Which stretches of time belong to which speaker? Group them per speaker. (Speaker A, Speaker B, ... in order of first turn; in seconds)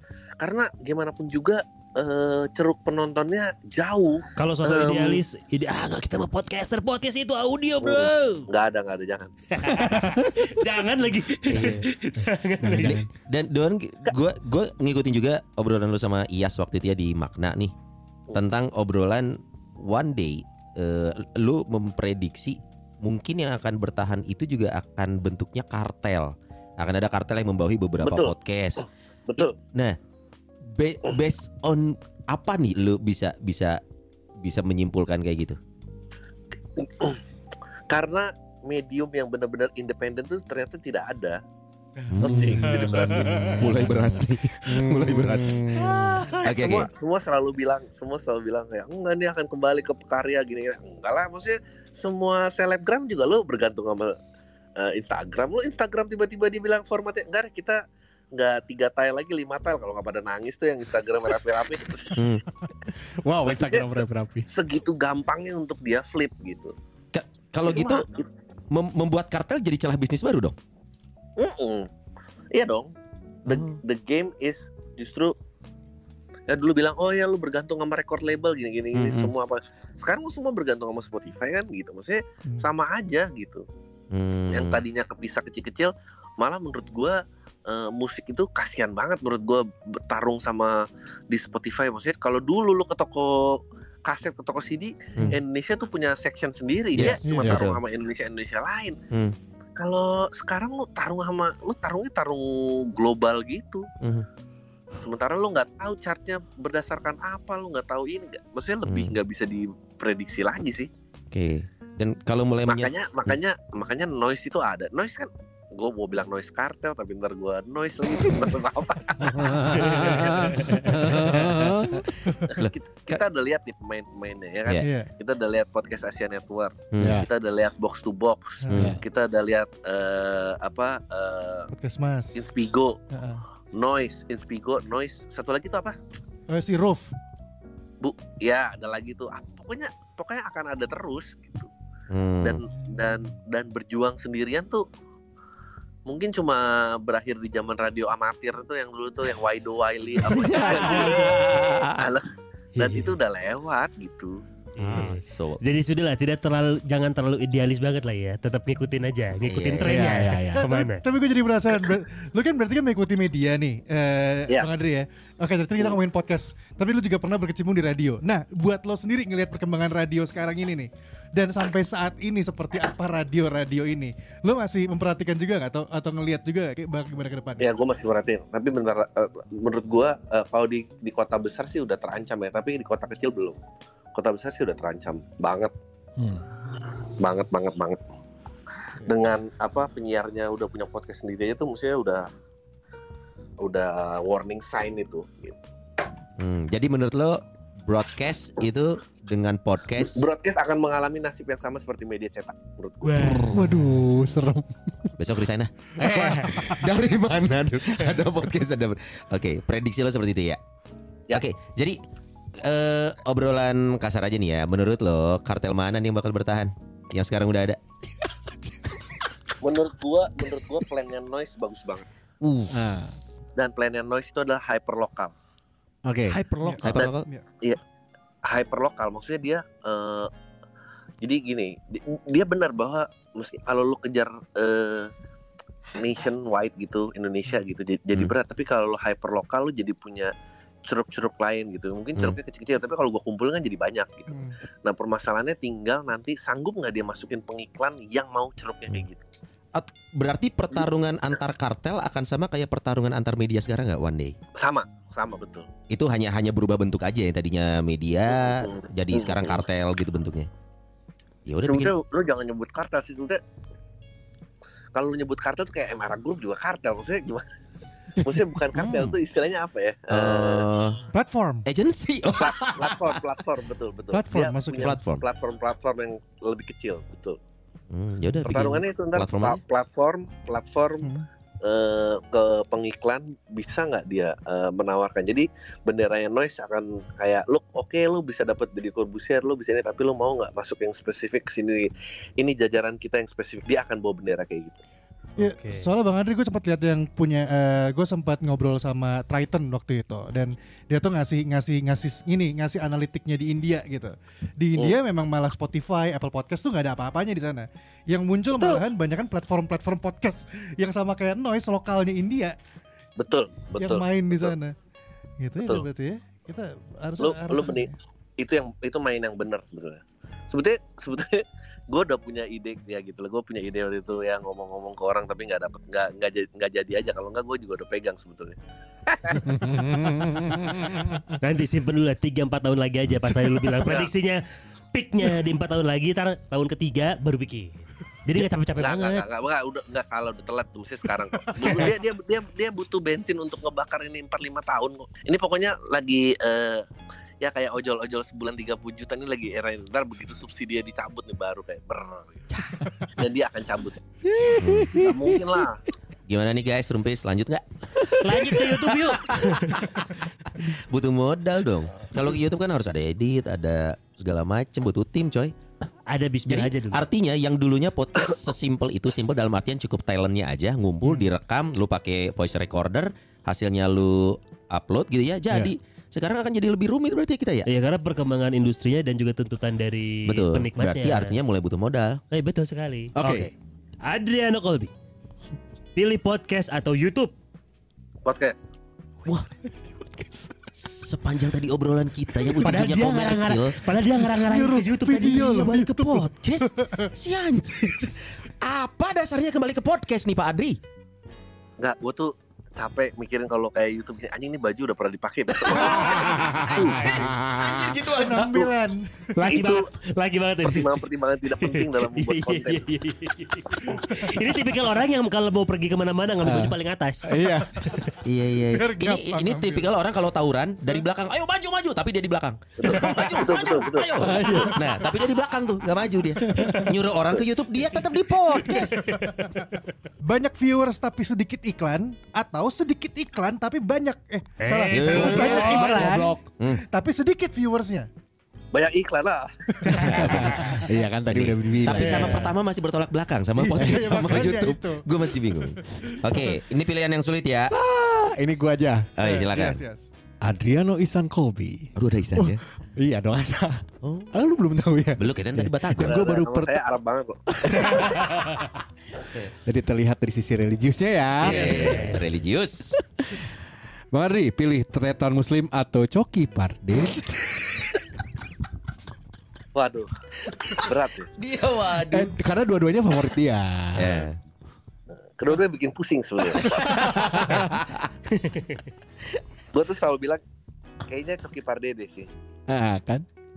Speaker A: 0.4-5.2, 7.8-9.8, 28.0-28.3, 29.3-29.6, 36.8-37.2, 37.9-41.4, 42.2-43.8, 46.4-54.2, 54.8-57.8, 58.3-62.2, 63.5-66.7, 67.7-68.2, 71.4-71.9, 72.5-72.9, 73.5-75.3, 76.5-83.7, 84.5-99.0, 99.8-103.9, 105.0-110.9, 112.7-121.6, 122.4-131.7, 132.3-133.0, 133.7-135.9, 138.0-141.7, 142.4-144.8, 146.1-154.4, 177.6-183.6, 184.1-185.7, 187.2-188.0, 189.0-192.3, 193.6-195.6, 200.0-203.6, 219.6-222.1, 223.6-225.3, 226.8-227.8, 228.4-230.3, 231.2-235.1, 235.9-240.3, 240.8-249.2, 254.6-255.7, 258.3-259.6, 261.6-263.4, 264.9-267.4, 268.2-270.7, 272.3-277.4, 278.4-294.8, 308.5-308.8, 313.2-314.5, 315.6-315.9, 317.2-330.5, 333.7-334.1, 338.8-346.9, 347.4-354.0, 354.9-355.8, 388.2-388.7, 401.8-407.0, 409.5-409.9, 410.6-412.9, 422.8-424.5, 438.7-440.3, 455.9-458.3, 469.7-470.1, 470.7-471.3, 475.4-477.2, 479.7-480.4, 481.1-482.3
Speaker B: 4.3-8.5, 9.5-13.0, 152.8-153.2, 154.8-161.0, 203.0-203.7, 226.3-226.8, 295.4-295.9, 331.4-334.4, 334.9-339.3, 358.2-359.9, 366.1-367.0, 377.7-381.3, 382.3-383.5, 384.0-384.9, 385.9-387.3, 392.6-395.6, 409.4-418.1, 428.8-429.6, 434.6-436.1, 461.4-462.2, 478.3-478.8
Speaker C: 11.5-11.9, 13.3-17.7, 18.3-28.9, 29.4-30.0, 30.6-33.8, 34.4-35.6, 42.1-45.7, 46.4-46.9, 62.1-62.4, 67.1-68.0, 68.7-70.5, 73.5-73.8, 78.9-79.3, 84.1-84.8, 96.9-97.8, 104.0-104.2, 108.8-109.1, 111.3-113.3, 119.9-123.2, 126.9-127.2, 128.7-129.0, 142.1-142.6, 150.3-152.1, 154.8-155.6, 159.4-160.1, 196.4-200.3, 205.2-210.6, 211.3-212.0, 212.6-217.8, 222.4-222.7, 226.8-227.3, 249.7-254.4, 255.9-260.5, 261.4-261.9, 268.7-269.1, 270.1-271.0, 271.6-273.2, 274.8-275.2, 277.9-279.6, 354.5-355.0, 356.3-360.0, 360.6-365.5, 366.5-377.7, 380.2-382.2, 390.8-393.8, 395.2-400.8, 405.7-408.7, 418.2-429.0, 434.9-436.8, 439.9-440.7, 441.3-447.7, 449.2-449.8, 451.9-452.6, 454.0-454.3, 455.1-456.2, 461.4-462.9, 470.5-472.3, 473.9-474.4, 476.7-478.1
Speaker D: 12.6-13.1, 42.2-46.2, 62.9-64.5, 119.2-122.0, 127.0-127.3, 128.7-129.0, 159.8-160.7, 186.2-186.4, 203.5-205.2, 206.0-206.8, 218.7-219.0, 222.7-223.2, 226.0-226.4, 329.4-331.0, 354.3-355.1, 383.1-383.5, 389.9-390.5, 394.4-395.8, 406.2-408.0, 416.4-417.7, 424.2-424.9, 426.4-426.9, 435.5-436.4, 440.1-442.5, 447.7-449.1, 450.4-456.8, 457.6-458.5, 459.6-462.2, 463.2-463.5, 464.1-467.8, 472.1-474.2, 476.8-477.7, 482.7-483.2
Speaker E: 42.7-43.6, 45.7-46.4, 97.2-97.6, 124.8-125.1, 128.6-128.9, 131.7-132.5, 133.1-133.4, 136.5-137.1, 142.8-143.1, 160.5-177.6, 226.6-227.4, 244.3-244.6, 271.1-271.6, 274.1-274.9, 295.4-312.5, 313.8-314.7, 315.4-317.9, 395.1-397.1, 408.1-409.5, 418.6-419.9, 428.5-429.6, 430.2-438.1, 439.7-440.4, 441.9-442.5, 443.6-446.5, 449.2-450.1